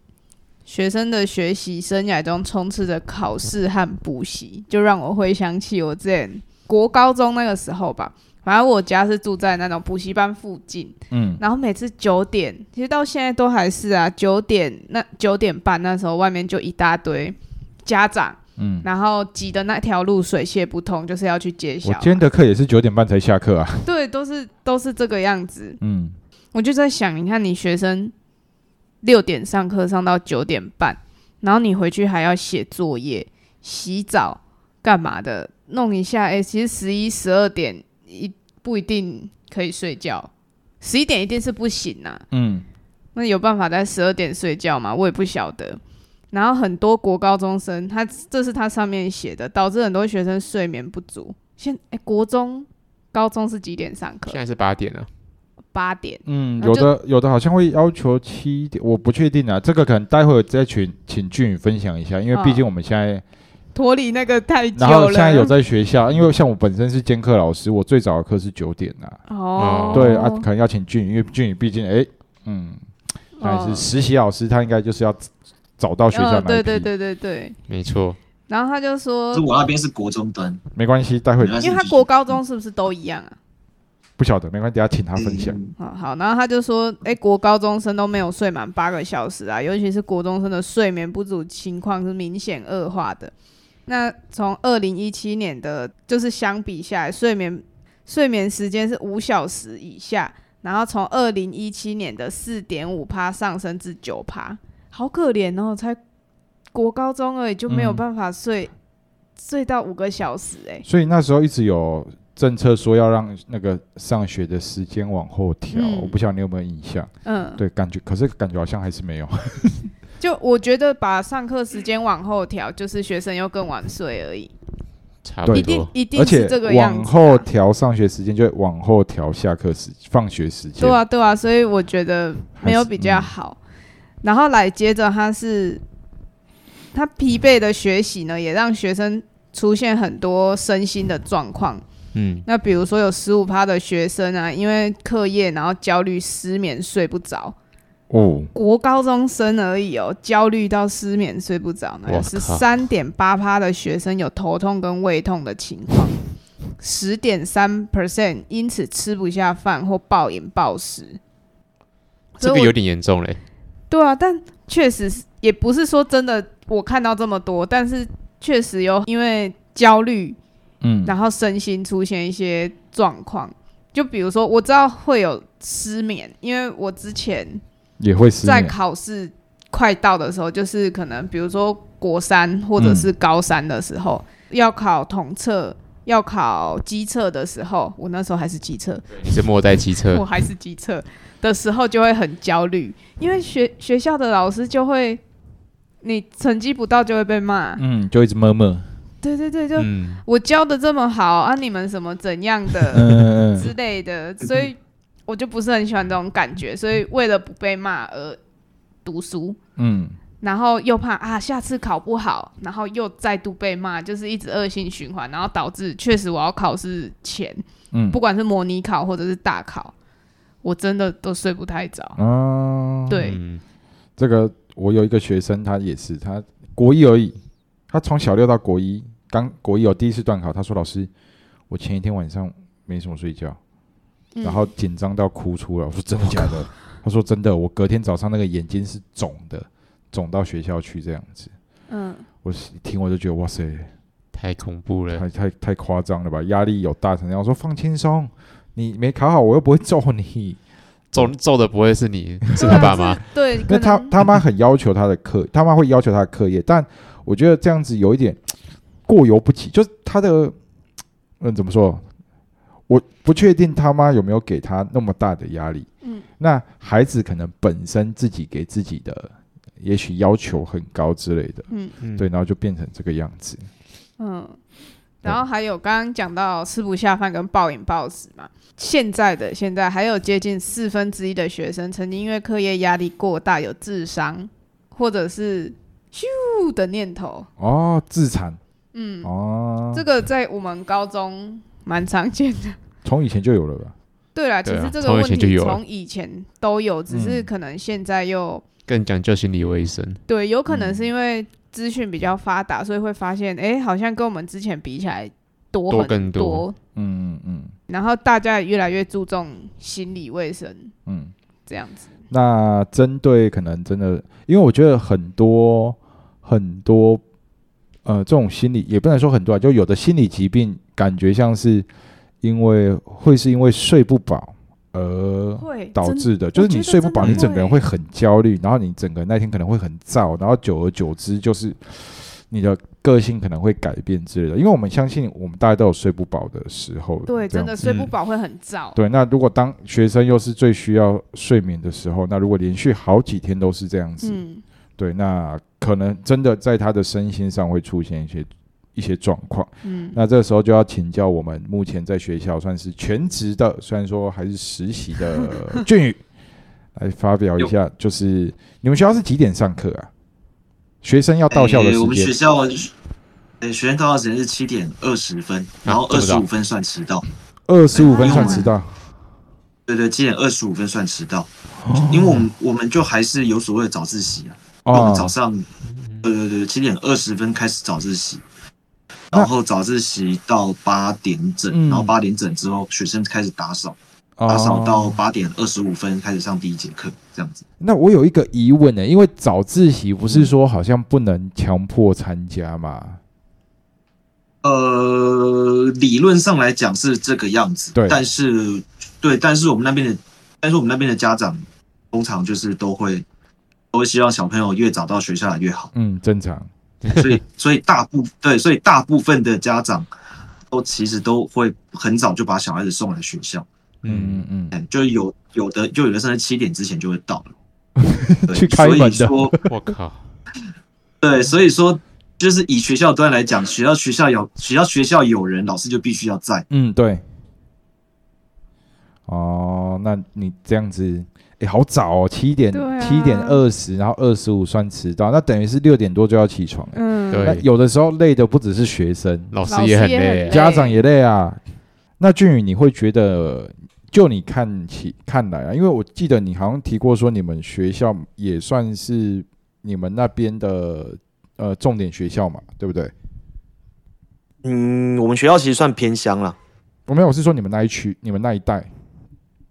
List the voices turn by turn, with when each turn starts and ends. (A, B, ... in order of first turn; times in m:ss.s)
0:00.7-0:22.2 A
0:11.1-0:11.4 B
0:18.6-0:18.9 B
0:21.8-0:23.9 B
0:23.8-0:25.8 A
0:25.8-0:26.1 B
0:26.5-0:28.1 A
0:29.0-0:40.3 A
0:40.8-0:42.2 A
0:42.3-0:42.6 B
0:43.2-0:45.8 A
0:46.3-0:54.4 A
0:54.3-0:55.1 C
0:55.7-0:56.9 A
0:56.3-1:03.2 B
1:02.3-1:02.6 A
1:03.8-1:05.5 A
1:04.8-1:09.2 B
1:09.3-1:10.5 A
1:09.6-1:10.1 C
1:09.9-1:12.8 B
1:13.4-1:13.9 A
1:13.4-1:16.9 B
1:16.1-1:17.6 A
1:17.7-1:18.2 C
1:18.5-1:19.4 A
1:19.3-1:20.6 D
1:20.8-1:21.6 B
1:21.4-1:22.4 D
1:21.6-1:23.4 A
1:24.2-1:25.6 B
1:25.2-1:25.8 D
1:25.8-1:33.3 A
1:33.9-1:46.0 A
1:46.7-1:48.7 A
1:47.7-1:48.0 B
1:49.4-1:50.8 A
1:50.9-1:59.9 B
1:55.7-1:56.2 A
1:57.2-1:57.6 A
2:00.2-2:04.5 A
2:05.2-2:05.9 C
2:05.4-2:11.0 B
2:05.5-2:07.4 A
2:10.8-2:13.6 A
2:12.6-2:13.3 B
2:14.2-2:15.8 A
2:16.9-2:21.8 A
2:22.1-2:22.5 C
2:22.5-2:27.6 A
2:28.1-2:28.5 B
2:28.5-2:36.2 A
2:32.1-2:32.6 C
2:36.8-2:41.2 A
2:42.4-2:43.4 C
2:42.4-2:42.7 A
2:43.9-2:50.4 A
2:50.8-2:51.1 B
2:51.0-2:57.6 A
2:58.0-2:58.7 B
2:58.4-3:09.3 A
3:02.8-3:03.1 B
3:09.2-3:10.2 C
3:10.1-3:15.2 A
3:16.0-3:17.8 A
3:17.8-3:18.9 B
3:19.2-3:28.4 A
3:19.8-3:20.2 C
3:22.9-3:23.7 B
3:29.0-3:29.6 A
3:29.8-3:30.2 B
3:30.4-3:39.9 A
3:37.9-3:38.2 B
3:40.6-3:42.2 A
3:42.2-3:43.2 B
3:43.1-3:43.4 A
3:43.2-3:43.6 C
3:44.2-3:47.4 B
3:47.9-3:51.1 B
3:51.7-3:53.6 B
3:54.4-3:54.7 A
3:54.4-4:01.5 B
4:01.9-4:02.3 A
4:02.4-4:03.9 B
4:04.4-4:05.2 C
4:05.1-4:10.6 B
4:11.1-4:13.2 C
4:12.6-4:14.1 A
4:12.6-4:13.1 B
4:13.7-4:18.4 B
4:19.1-4:20.6 B
4:21.4-4:22.0 B
4:22.9-4:25.9 B
4:26.4-4:33.7 B
4:32.0-4:32.3 C
4:34.2-4:34.6 A
4:35.2-4:47.5 A
4:47.6-4:48.6 B
4:48.9-4:49.3 A
4:49.2-4:50.0 B
4:49.9-4:52.8 A
4:53.0-4:53.9 B
4:54.4-4:58.7 A
4:54.6-4:55.8 C
4:57.1-4:57.5 B
4:58.9-5:00.2 C
5:00.3-5:06.8 A
5:00.7-5:01.1 B
5:05.9-5:06.7 C
5:07.0-5:07.7 B
5:07.9-5:10.9 A
5:11.1-5:11.3 B
5:11.7-5:12.1 A
5:12.3-5:17.2 B
5:18.0-5:21.9 B
5:22.4-5:37.7 B
5:25.6-5:27.8 A
5:27.2-5:27.5 C
5:37.3-5:39.0 A
5:37.8-5:38.1 C
5:39.0-5:44.4 B
5:44.2-5:44.6 A
5:45.0-5:56.2 B
5:49.8-5:50.2 A
5:57.0-6:00.1 B
6:01.0-6:02.3 B
6:01.5-6:02.9 D
6:03.6-6:07.2 D
6:05.8-6:06.5 C
6:07.7-6:09.1 B
6:08.0-6:08.7 A
6:08.2-6:08.7 D
6:09.9-6:11.5 D
6:11.8-6:12.5 B
6:12.1-6:15.7 D
6:14.9-6:15.3 B
6:15.9-6:16.3 C
6:16.2-6:18.4 D
6:19.3-6:24.0 D
6:21.7-6:22.1 B
6:24.4-6:25.2 B
6:24.5-6:27.6 D
6:27.8-6:33.2 B
6:34.6-6:43.2 D
6:38.0-6:38.2 B
6:43.9-6:45.9 D
6:45.9-6:46.7 B
6:47.0-6:47.4 C
6:47.1-6:50.1 D
6:50.7-6:53.7 D
6:54.0-6:54.5 C
6:54.1-6:54.8 B
6:54.7-6:57.5 D
6:58.0-6:59.6 B
6:58.5-6:59.6 D
6:59.7-7:00.2 C
7:01.2-7:06.7 D
7:06.7-7:07.2 B
7:09.3-7:19.5 B
7:12.7-7:13.6 A
7:16.9-7:17.5 A
7:17.3-7:17.6 C
7:19.5-7:20.6 C
7:19.7-7:21.0 A
7:20.5-7:21.6 B
7:22.2-7:33.1 B
7:34.6-7:36.6 D
7:37.1-7:38.9 B